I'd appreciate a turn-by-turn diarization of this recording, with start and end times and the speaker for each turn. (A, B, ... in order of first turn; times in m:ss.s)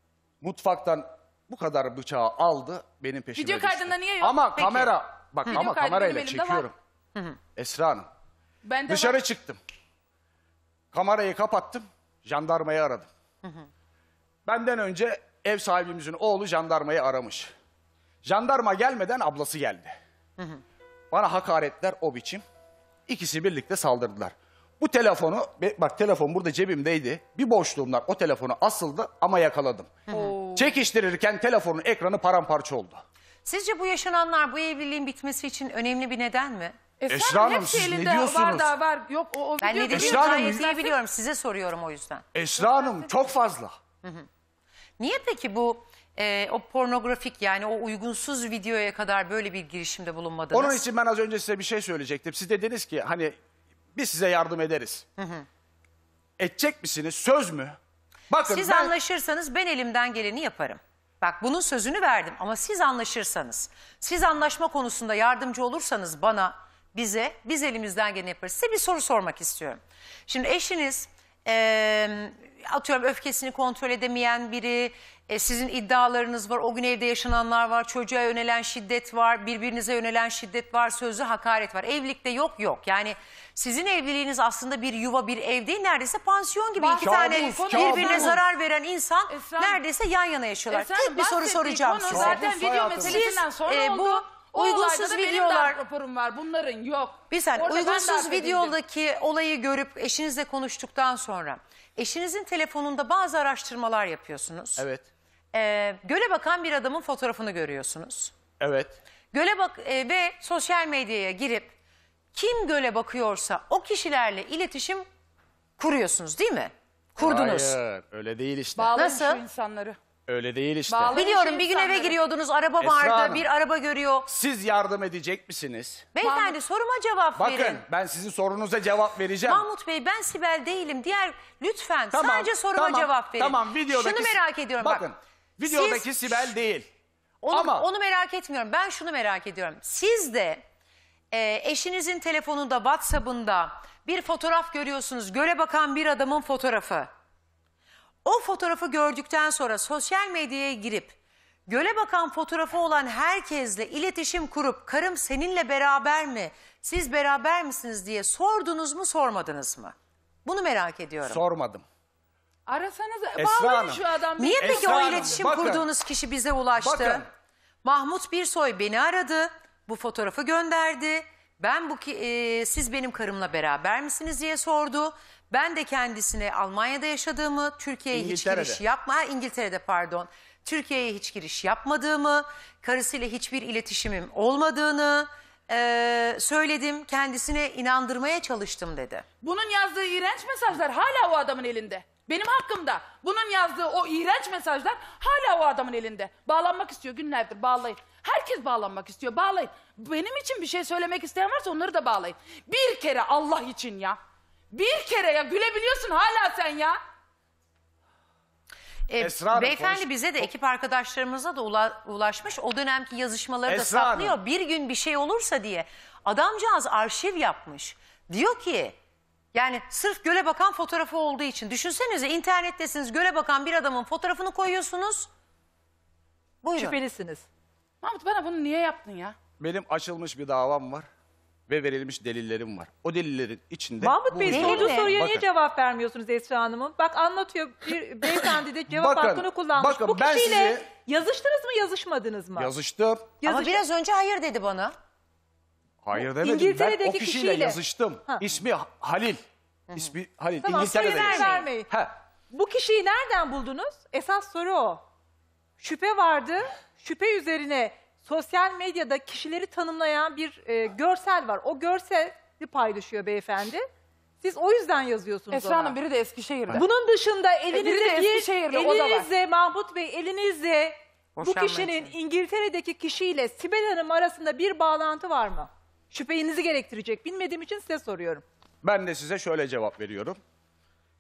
0:00.4-0:06.8 A
0:03.4-0:04.4 B
0:04.6-0:04.9 C
0:05.5-0:06.7 B
0:07.6-0:08.1 A
0:08.6-0:09.2 B
0:08.9-0:09.6 A
0:10.9-0:13.1 A
0:14.5-0:17.5 A
0:18.2-0:20.0 A
0:21.1-0:22.4 A
0:23.1-0:30.0 A
0:30.1-0:30.4 C
0:30.1-0:30.7 B
0:30.6-0:33.0 A
0:33.4-0:36.8 C
0:37.0-0:41.0 B
0:37.1-0:38.7 A
0:39.6-0:42.2 C
0:39.9-0:40.7 A
0:42.3-0:43.8 A
0:45.0-0:50.8 C
0:50.5-0:53.4 A
0:54.0-0:55.0 A
0:55.2-0:55.5 C
0:56.4-0:57.8 A
0:58.3-0:58.9 A
0:58.5-1:35.8 C
1:26.8-1:28.4 B
1:27.0-1:28.4 A
1:29.3-1:29.8 B
1:30.7-1:38.8 B
1:32.1-1:33.3 A
1:37.3-1:44.9 C
1:44.8-1:45.1 A
1:45.5-1:48.4 C
1:48.6-1:49.0 A
1:49.3-1:51.7 C
1:52.3-1:55.1 C
1:55.8-1:57.8 C
1:57.2-1:58.9 A
1:58.8-2:00.0 B
1:59.0-1:59.4 C
2:00.3-2:01.3 A
2:00.9-2:02.2 B
2:01.1-2:04.3 C
2:02.8-2:03.5 A
2:04.3-2:06.1 A
2:06.2-2:07.8 C
2:06.2-2:06.6 B
2:07.4-2:09.7 A
2:09.5-2:15.1 C
2:12.1-2:16.9 A
2:15.6-2:16.5 C
2:17.4-2:20.6 C
2:17.5-2:17.9 A
2:21.3-2:27.1 C
2:28.2-2:39.9 C
2:40.4-2:41.4 C
2:41.2-2:41.8 A
2:42.7-2:45.4 B
2:43.4-2:44.0 A
2:44.4-2:47.2 C
2:44.6-2:45.9 A
2:46.8-2:47.3 A
2:47.8-3:09.2 C
2:58.1-2:58.8 A
3:09.4-3:24.2 B
3:24.7-3:27.0 B
3:29.1-3:39.0 C
3:29.2-3:30.1 A
3:33.7-3:34.4 A
3:39.5-3:45.3 C
3:46.6-3:47.0 C
3:46.7-3:47.5 D
3:48.0-3:49.4 B
3:49.6-3:51.1 A
3:51.7-3:55.5 A
3:54.0-4:02.7 D
3:54.5-3:55.2 C
3:58.9-4:00.9 A
4:02.6-4:03.4 A
4:03.4-4:03.8 D
4:03.4-4:05.0 C
4:06.0-4:09.4 A
4:06.2-4:07.8 D
4:09.9-4:12.2 A
4:10.6-4:11.9 D
4:11.0-4:11.7 C
4:12.5-4:15.0 D
4:15.8-4:23.8 D
4:24.4-4:26.0 D
4:25.5-4:26.9 B
4:26.7-4:38.4 D
4:27.7-4:29.3 B
4:31.4-4:32.2 C
4:38.8-4:40.4 A